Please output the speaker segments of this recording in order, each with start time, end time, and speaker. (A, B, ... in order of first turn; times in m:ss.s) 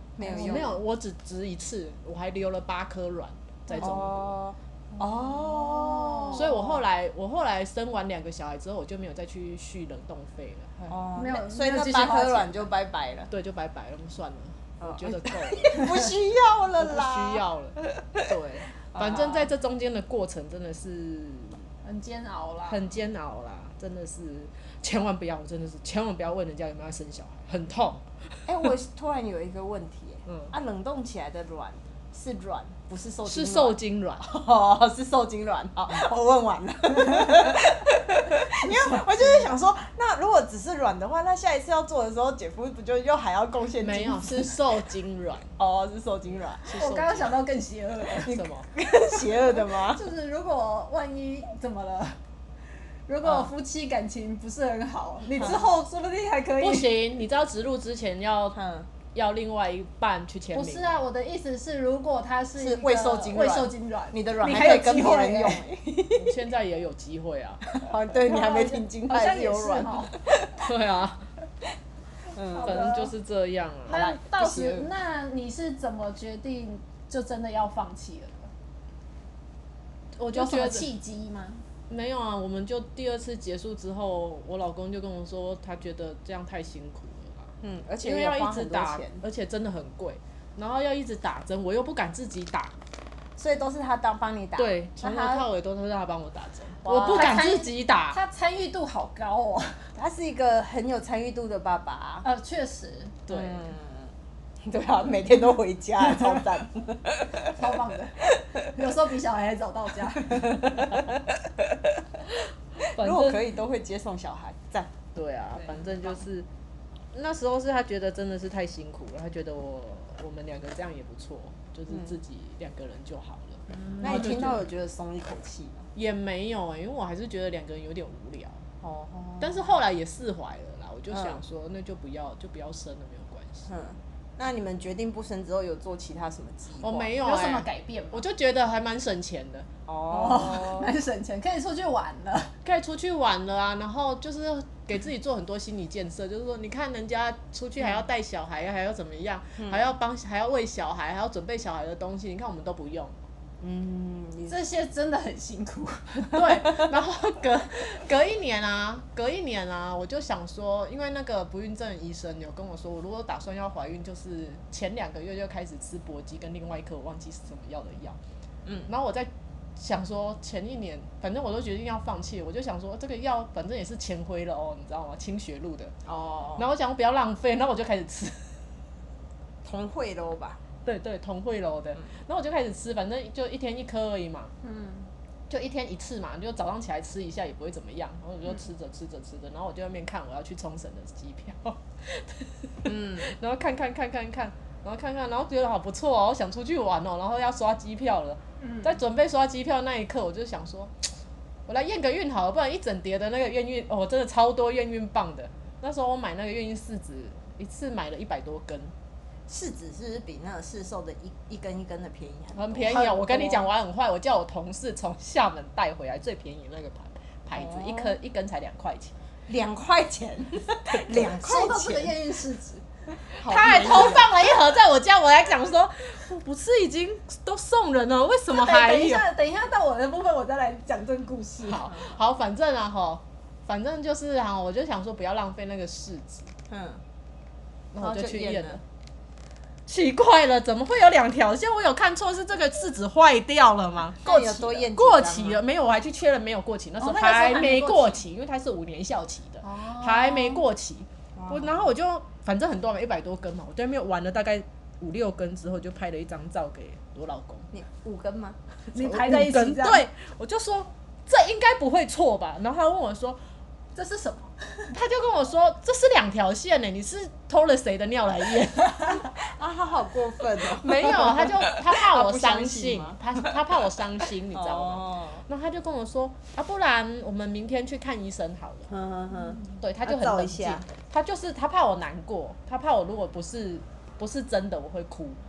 0:00.2-0:00.8 A
0:00.2-0:04.4 B
0:03.8-0:06.8 A
0:04.9-0:06.5 C
0:06.3-0:11.0 B
0:10.9-0:13.3 A
0:11.2-0:12.6 C
0:13.3-0:16.0 B
0:14.8-0:17.4 A
0:16.8-0:21.7 B
0:18.9-0:19.5 A
0:21.8-0:22.8 C
0:22.7-0:28.4 B
0:28.5-0:44.6 A
0:30.3-0:30.5 B
0:33.2-0:34.3 B
0:38.9-0:39.5 B
0:43.8-0:45.5 B
0:45.6-0:46.7 A
0:46.6-0:47.4 B
0:46.7-0:48.4 C
0:48.2-0:48.7 B
0:48.2-0:50.0 A
0:49.6-0:52.2 C
0:53.1-0:56.9 C
0:53.2-0:53.5 A
0:55.4-0:55.7 A
0:56.6-0:58.6 B
0:58.6-0:58.9 A
0:59.1-1:01.0 B
1:00.5-1:05.6 C
1:02.6-1:06.3 A
1:06.1-1:07.7 B
1:07.8-1:10.6 A
1:08.1-1:10.1 C
1:10.6-1:11.3 B
1:12.3-1:12.9 A
1:12.5-1:13.1 C
1:12.6-1:14.1 B
1:13.9-1:18.5 C
1:13.9-1:14.9 A
1:20.2-1:20.9 B
1:20.3-1:21.6 C
1:21.9-1:27.5 B
1:27.6-1:29.2 A
1:28.0-1:32.8 B
1:33.4-1:35.5 A
1:34.6-1:38.2 B
1:36.8-1:37.5 A
1:36.9-1:39.9 C
1:40.0-1:42.3 A
1:42.2-1:43.2 C
1:43.3-1:43.7 B
1:43.3-1:44.1 A
1:44.6-1:47.5 A
1:47.4-1:50.6 C
1:50.3-1:52.0 A
1:52.8-1:53.4 B
1:52.8-1:54.9 A
1:55.2-1:56.5 B
1:57.1-2:04.6 B
2:01.9-2:02.1 A
2:04.0-2:05.9 A
2:06.0-2:08.6 B
2:08.8-2:09.6 A
2:09.4-2:13.7 B
2:11.1-2:11.4 A
2:13.7-2:17.1 A
2:16.8-2:19.7 B
2:17.2-2:18.2 C
2:19.9-2:20.9 A
2:20.1-2:22.6 C
2:22.6-2:33.2 B
2:29.6-2:29.8 A
2:33.6-2:34.7 A
2:34.5-2:36.4 C
2:36.2-2:48.2 B
2:48.6-2:48.9 A
2:48.9-2:55.9 B
2:56.0-2:56.6 A
2:56.6-2:58.6 B
2:59.6-3:00.6 A
3:00.8-3:04.5 B
3:04.6-3:05.1 C
3:05.5-3:21.1 B
3:12.9-3:13.4 A
3:18.6-3:19.0 C
3:21.7-3:28.9 B
3:29.5-3:33.3 A
3:32.6-3:39.1 B
3:33.1-3:33.5 C
3:37.5-3:38.2 A
3:39.5-3:42.2 A
3:41.1-3:42.8 C
3:43.3-3:44.3 A
3:43.4-3:49.2 B
3:43.7-3:44.2 C
3:48.5-3:51.9 C
3:51.6-3:56.5 B
3:56.7-3:57.0 A
3:57.9-3:58.8 B
3:58.0-3:58.8 A
3:59.9-4:17.7 B
4:04.2-4:05.6 A
4:07.0-4:08.2 C
4:09.6-4:10.6 C
4:11.4-4:11.9 A
4:17.7-4:18.6 A
4:18.9-4:20.0 C
4:19.0-4:23.4 B
4:24.0-4:24.9 C
4:24.9-4:29.2 B
4:29.4-4:33.5 A
4:30.7-4:38.9 B
4:34.5-4:35.4 A
4:38.9-4:40.9 A
4:39.8-4:45.4 B